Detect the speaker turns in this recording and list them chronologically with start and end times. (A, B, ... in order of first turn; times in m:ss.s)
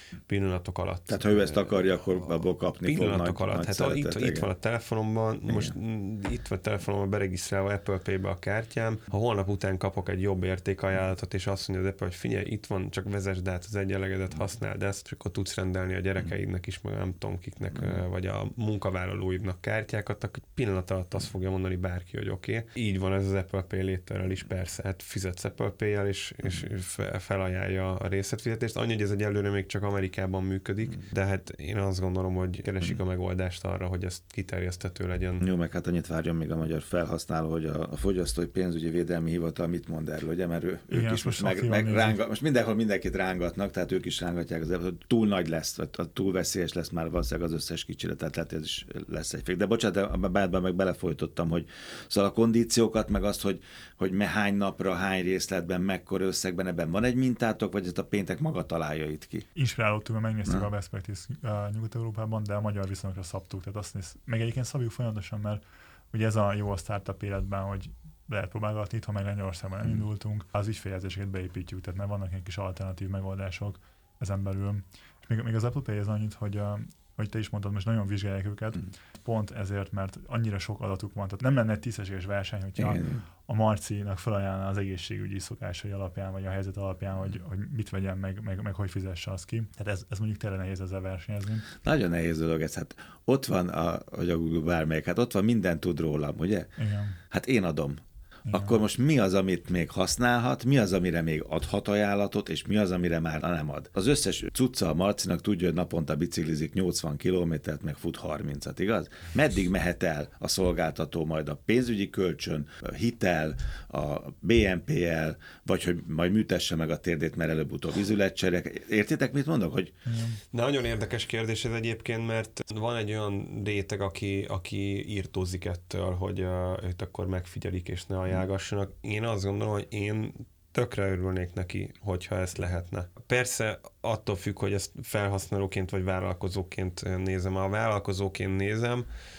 0:00.3-0:35.4 A
0:01.1-0:04.5 B
0:05.5-0:05.7 B
0:17.8-0:18.0 B
0:35.4-0:59.5 B
0:40.9-0:42.2 C
0:59.6-1:05.6 C
1:06.1-1:31.7 C
1:22.8-1:23.2 B
1:31.8-1:36.7 B
1:36.8-1:37.2 C
1:37.3-1:59.9 B
1:38.5-1:38.8 C
2:00.1-2:00.4 C
2:00.5-2:19.1 A